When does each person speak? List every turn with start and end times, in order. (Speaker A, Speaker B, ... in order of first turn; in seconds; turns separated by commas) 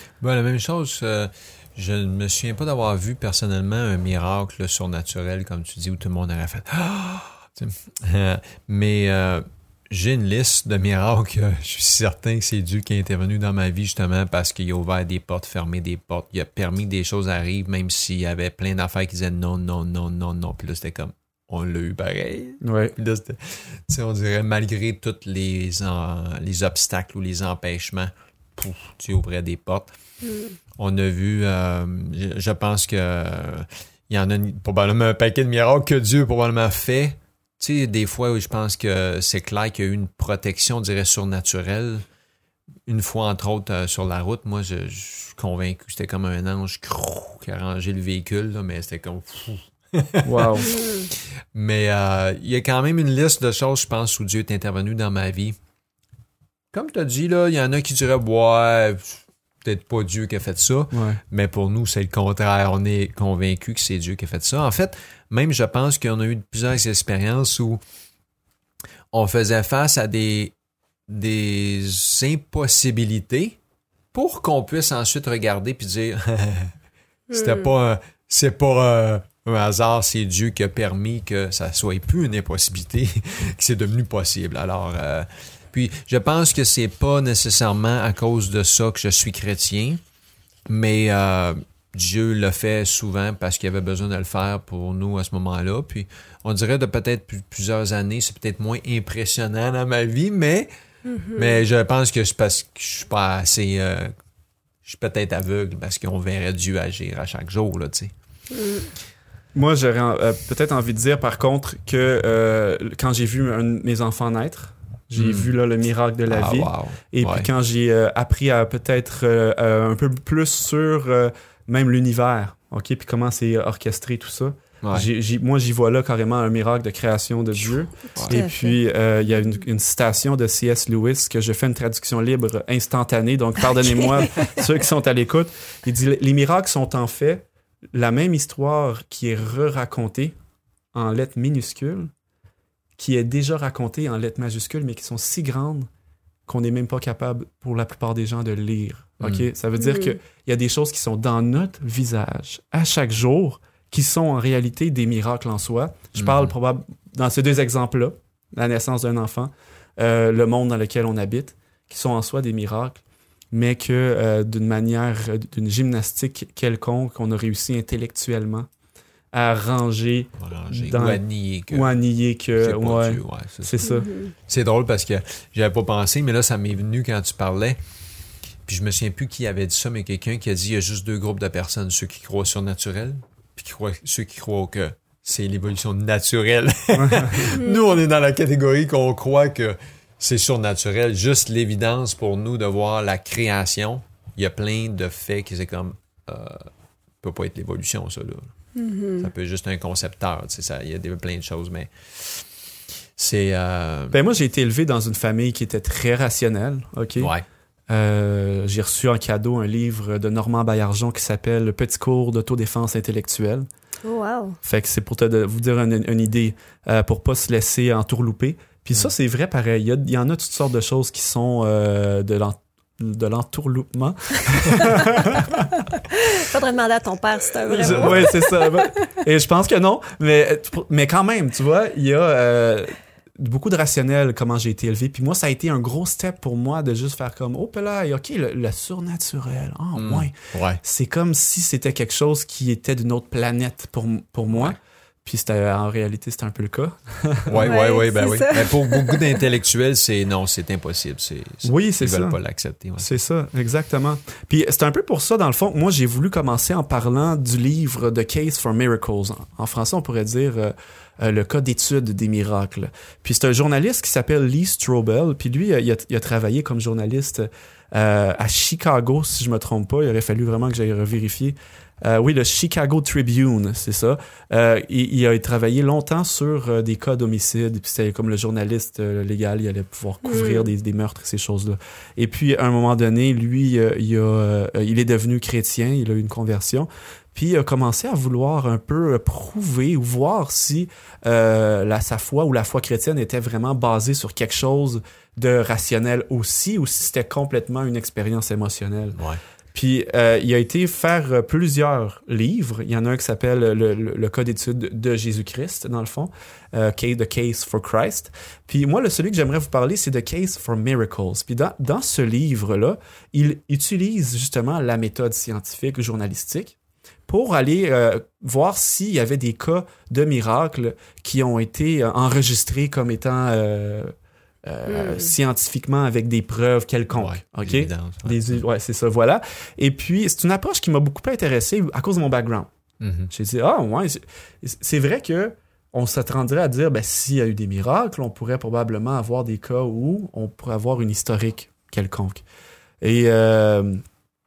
Speaker A: 0.2-29.9, Speaker B: 22.6-22.9, Speaker C: 30.2-30.6, Speaker A: 30.8-42.0, Speaker A: 42.9-55.6, Speaker B: 50.2-50.8, Speaker C: 50.7-51.1, Speaker A: 56.7-67.8, Speaker B: 60.9-61.2, Speaker A: 69.1-70.5, Speaker A: 71.1-73.6, Speaker A: 74.1-76.7, Speaker C: 77.3-77.7, Speaker A: 77.3-90.0, Speaker A: 90.7-100.7, Speaker C: 101.1-101.6, Speaker A: 101.3-104.1, Speaker A: 104.8-108.1, Speaker C: 108.5-108.9, Speaker B: 109.5-140.3, Speaker A: 115.2-115.5, Speaker A: 116.3-117.5, Speaker A: 124.8-125.1, Speaker C: 127.7-128.8, Speaker C: 129.3-129.6, Speaker C: 133.9-134.2, Speaker B: 140.9-142.1, Speaker B: 143.0-145.9, Speaker B: 146.5-168.7, Speaker A: 149.2-149.5, Speaker C: 149.8-150.2, Speaker A: 156.1-156.5, Speaker B: 169.3-174.1, Speaker A: 170.4-172.0, Speaker A: 172.6-173.8, Speaker C: 173.8-174.3, Speaker A: 174.5-177.8, Speaker A: 178.7-196.7, Speaker B: 186.9-187.4, Speaker C: 187.6-187.9, Speaker A: 197.2-198.5, Speaker C: 198.8-199.3, Speaker A: 199.2-202.5, Speaker A: 203.2-204.2, Speaker B: 204.1-207.3, Speaker A: 207.2-207.4, Speaker B: 207.9-213.7, Speaker C: 214.0-214.6, Speaker B: 214.6-225.8, Speaker C: 224.6-225.1, Speaker C: 226.1-229.1, Speaker B: 227.7-247.7, Speaker A: 227.8-228.3, Speaker A: 239.9-240.8, Speaker A: 244.5-244.8, Speaker A: 247.5-253.1, Speaker C: 247.6-249.4, Speaker B: 251.6-252.4, Speaker B: 253.0-299.2, Speaker C: 280.2-280.7, Speaker B: 299.7-316.8, Speaker B: 317.3-324.1, Speaker B: 324.7-332.7, Speaker C: 324.9-325.3, Speaker A: 327.1-328.6, Speaker A: 333.0-333.3, Speaker B: 333.3-342.4, Speaker B: 343.0-344.0